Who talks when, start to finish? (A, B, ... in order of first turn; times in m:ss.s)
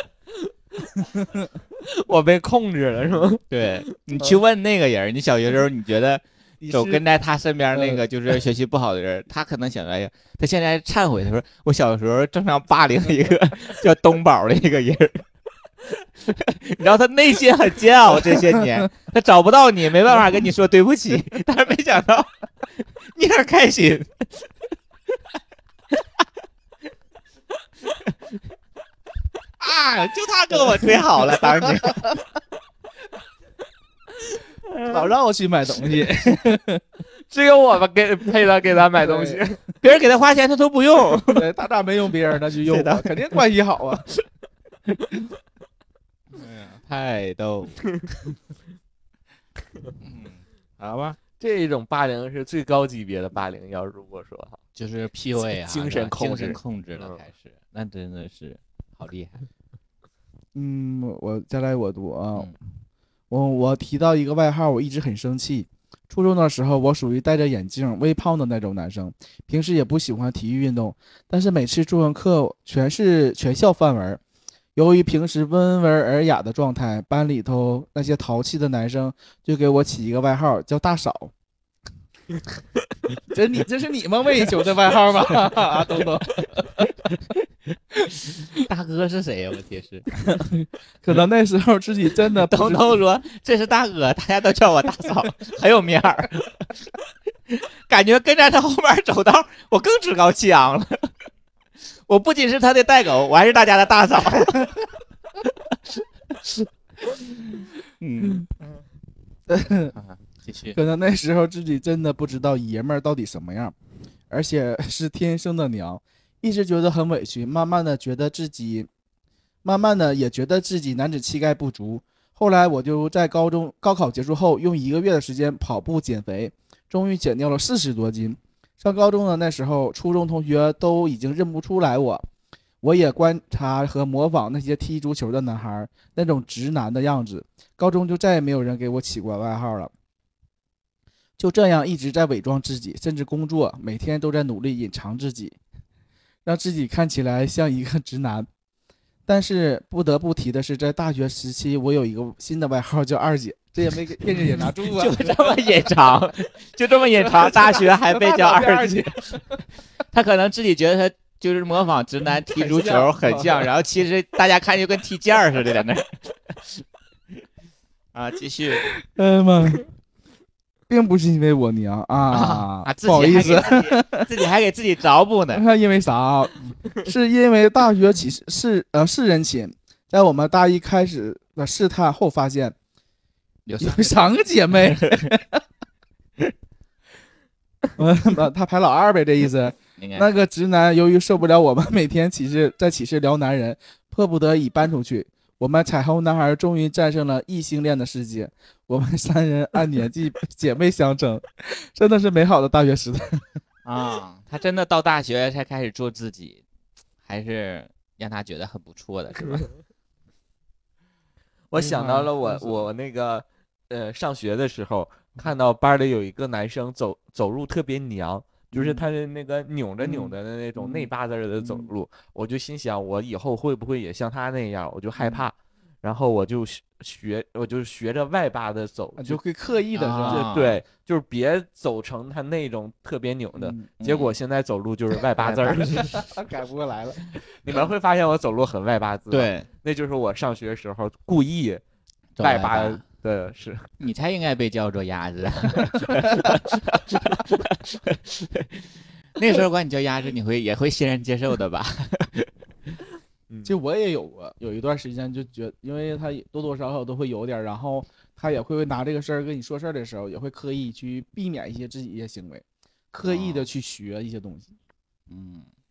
0:01.8-0:03.9 A
0:03.5-0:15.2 B
0:06.6-0:07.0 C
0:07.7-0:08.0 C
0:16.2-0:24.4 B
0:29.6-0:32.1 B
0:34.8-0:36.8 C
0:37.3-0:39.6 A
0:39.0-0:39.4 C
0:39.8-0:41.4 B
0:41.2-0:44.1 C
0:42.6-0:43.4 B
0:46.3-0:47.8 B
0:50.0-0:51.2 B
0:51.4-0:54.6 A
0:54.7-0:59.4 B
0:55.5-0:57.2 A
1:00.5-1:02.5 C
1:03.3-1:14.2 C
1:14.8-1:21.3 C
1:23.3-1:26.9 C
1:28.6-1:30.1 B
1:30.1-1:33.0 C
1:32.4-1:36.7 B
1:37.5-1:41.1 B
1:42.1-1:44.8 B
1:45.7-1:48.6 B
1:49.5-1:50.0 C
1:50.0-1:50.8 B
1:50.7-1:53.7 C
1:54.3-1:58.9 C
1:59.6-2:12.2 C
2:12.8-2:19.9 C
2:21.4-2:25.6 C
2:26.4-2:28.5 C
2:29.3-2:35.5 C
2:34.4-2:39.4 B
2:37.2-2:39.6 C
2:40.1-2:46.8 B
2:42.5-2:43.7 C
2:48.1-2:48.9 B
2:48.8-2:49.9 C
2:50.9-2:54.3 C
2:52.3-2:55.6 B
2:55.5-3:02.7 C
3:03.6-3:04.3 B
3:03.8-3:05.6 C
3:04.8-3:05.3 B
3:08.0-3:23.4 C
3:10.0-3:10.3 B
3:23.8-3:26.6 B
3:27.2-3:29.7 B
3:31.7-3:49.4 A
3:31.8-3:32.8 C
3:38.7-3:39.1 C
3:40.0-3:41.1 C
3:41.6-3:41.9 C
3:49.2-3:50.5 C
3:49.9-3:50.8 B
3:50.3-3:56.2 A
3:53.6-3:53.9 C
3:54.0-3:54.3 B
3:55.4-3:56.0 B
3:56.1-3:57.2 C
3:57.6-4:01.8 A
3:59.3-3:59.7 B
4:02.4-4:03.0 B
4:02.4-4:03.9 A
4:04.0-4:12.5 B
4:13.6-4:24.7 C
4:23.2-4:23.7 B
4:25.3-4:25.7 B